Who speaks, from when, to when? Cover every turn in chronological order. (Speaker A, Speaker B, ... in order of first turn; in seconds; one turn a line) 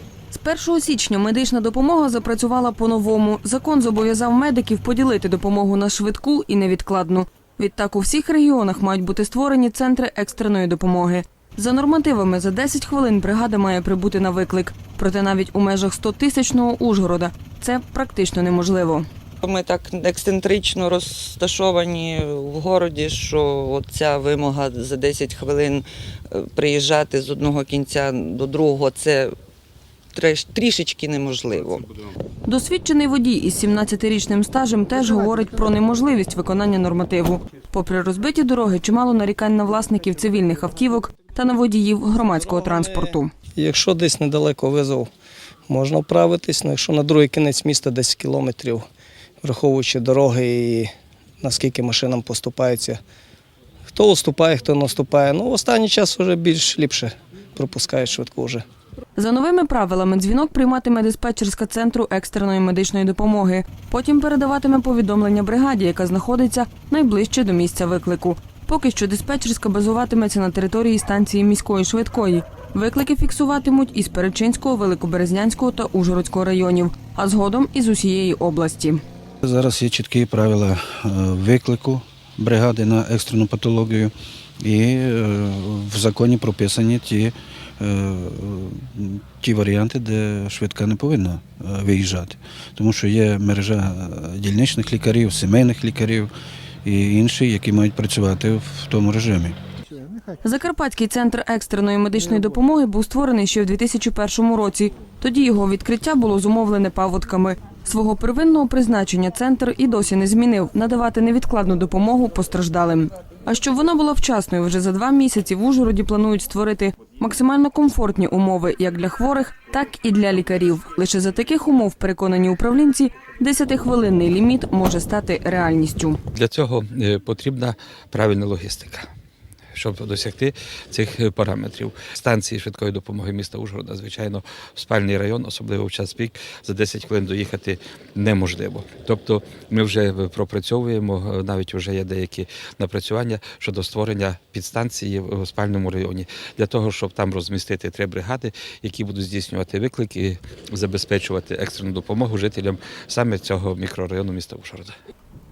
Speaker A: 0.3-19.1
Speaker B: 19.4-29.3
Speaker B: 30.1-31.8
Speaker A: 32.5-43.3
Speaker C: 43.5-45.1
Speaker C: 45.7-48.8
Speaker C: 49.4-53.0
Speaker C: 53.9-58.6
Speaker A: 59.2-79.0
Speaker D: 79.4-96.3
Speaker D: 96.8-99.5
Speaker A: 100.4-126.2
Speaker E: 126.3-129.1
Speaker E: 129.7-154.9